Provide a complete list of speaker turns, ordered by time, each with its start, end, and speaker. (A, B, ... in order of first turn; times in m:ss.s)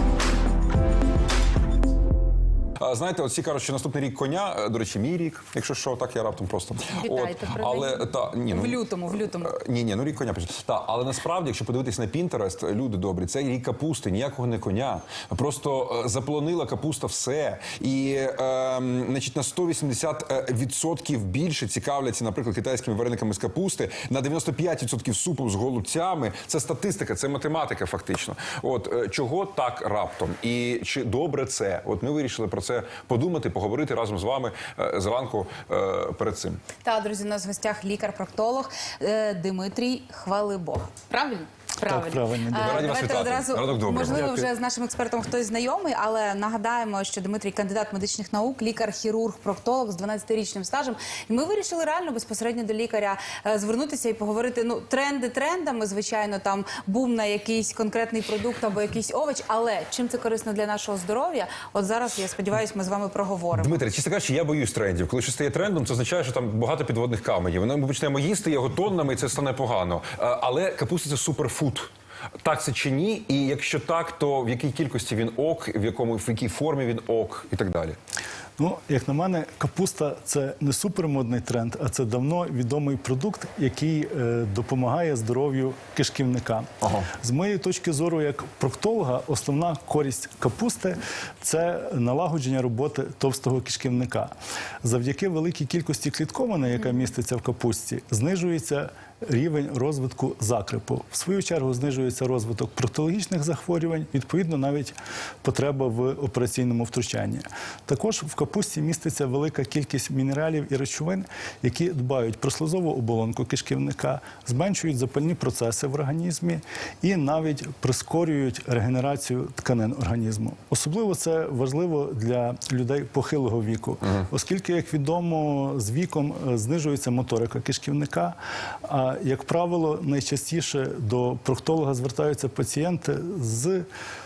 0:02.8-0:36.6 A
0:07.0-0:09.6 B
0:36.8-1:03.8 B
0:41.8-0:43.0 C
0:42.5-0:44.3 A
0:43.9-0:44.5 C
1:03.5-1:11.9 A
1:12.4-1:18.0 A
1:18.6-2:13.9 C
1:26.8-1:27.1 A